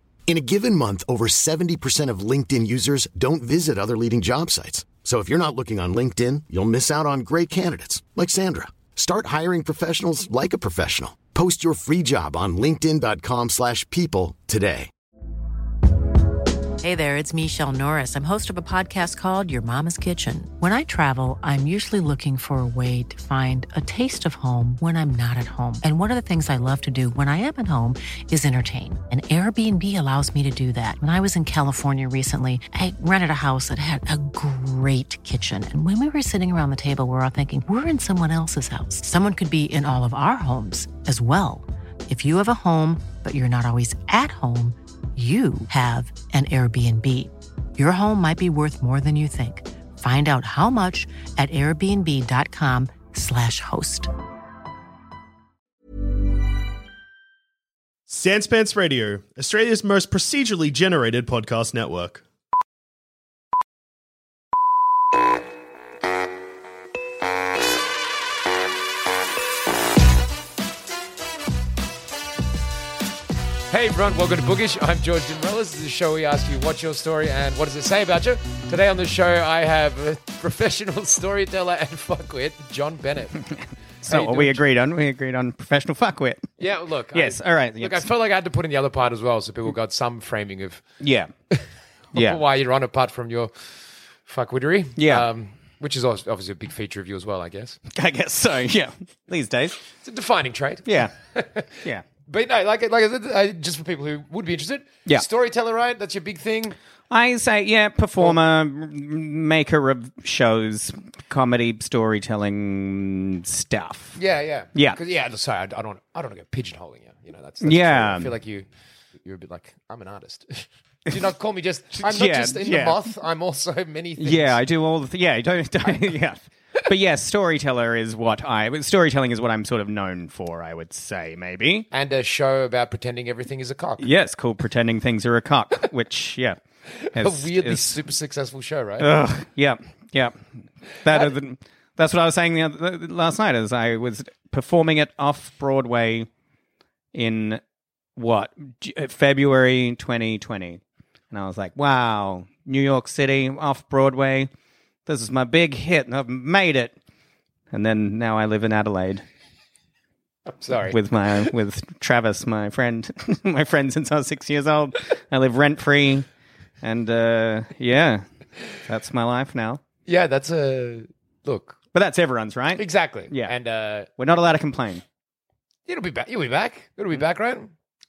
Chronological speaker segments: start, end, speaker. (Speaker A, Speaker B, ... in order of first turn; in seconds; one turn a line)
Speaker A: 0.3-14.9
Speaker B: 16.8-54.1
Speaker C: 58.1-62.2
Speaker D: 73.7-83.4
Speaker D: 84.0-84.6
Speaker E: 84.0-86.5
Speaker D: 86.6-90.8
Speaker E: 87.1-88.1
Speaker E: 91.0-91.3
Speaker D: 91.5-97.8
Speaker E: 92.1-92.4
Speaker E: 95.0-95.3
Speaker E: 97.9-99.8
Speaker D: 100.0-106.8
Speaker E: 100.8-101.1
Speaker E: 101.8-102.0
Speaker E: 107.1-114.2
Speaker D: 114.1-118.7
Speaker E: 117.6-118.3
Speaker D: 119.2-124.6
Speaker E: 122.0-123.0
Speaker E: 124.2-131.9
Speaker D: 125.8-126.1
Speaker D: 131.9-134.1
Speaker E: 134.0-136.6
Speaker D: 136.9-139.1
Speaker E: 137.1-138.0
Speaker E: 139.0-140.4
Speaker E: 141.0-146.3
Speaker E: 147.1-147.6
Speaker E: 148.2-154.5
Speaker E: 155.1-156.9
Speaker E: 157.7-159.2
Speaker D: 160.6-161.0
Speaker E: 160.9-166.3
Speaker E: 166.8-168.2
Speaker E: 168.8-169.8
Speaker D: 170.1-171.8
Speaker E: 171.9-173.5
Speaker D: 172.8-174.1
Speaker E: 174.2-175.0
Speaker D: 175.9-177.7